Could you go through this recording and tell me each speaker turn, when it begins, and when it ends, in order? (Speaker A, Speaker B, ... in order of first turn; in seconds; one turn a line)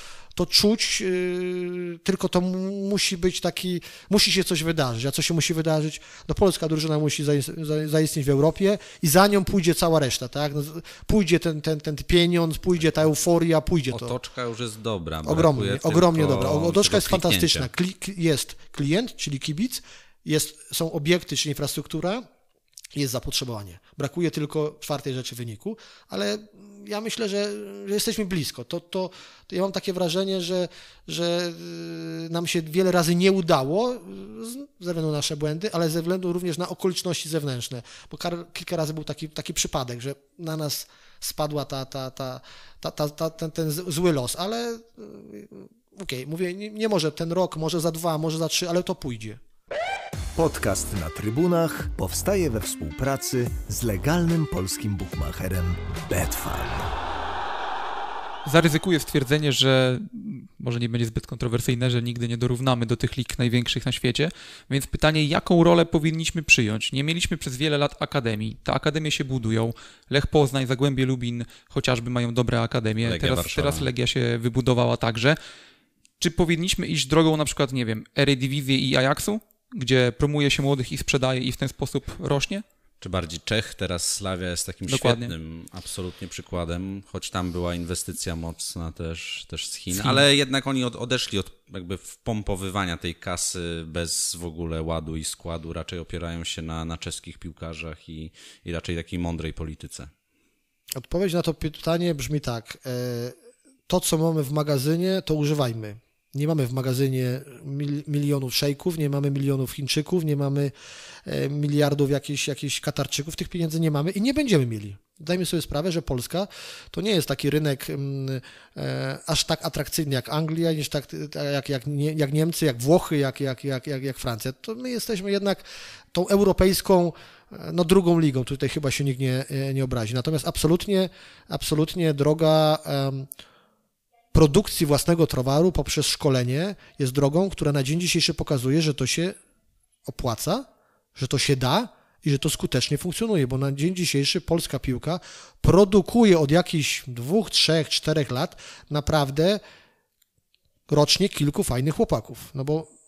Speaker A: 0.3-14.2
Speaker B: 13.9-17.7
Speaker A: 15.2-22.2
Speaker A: 22.9-49.4
Speaker C: 50.4-56.9
Speaker D: 58.4-75.4
Speaker B: 73.0-73.9
Speaker D: 76.2-82.6
Speaker B: 83.0-100.1
Speaker D: 84.9-85.3
Speaker D: 89.9-90.2
Speaker A: 101.0-103.3
Speaker A: 103.9-110.7
Speaker A: 111.2-133.3
Speaker A: 134.3-139.4
Speaker A: 140.1-149.6
Speaker A: 150.9-152.9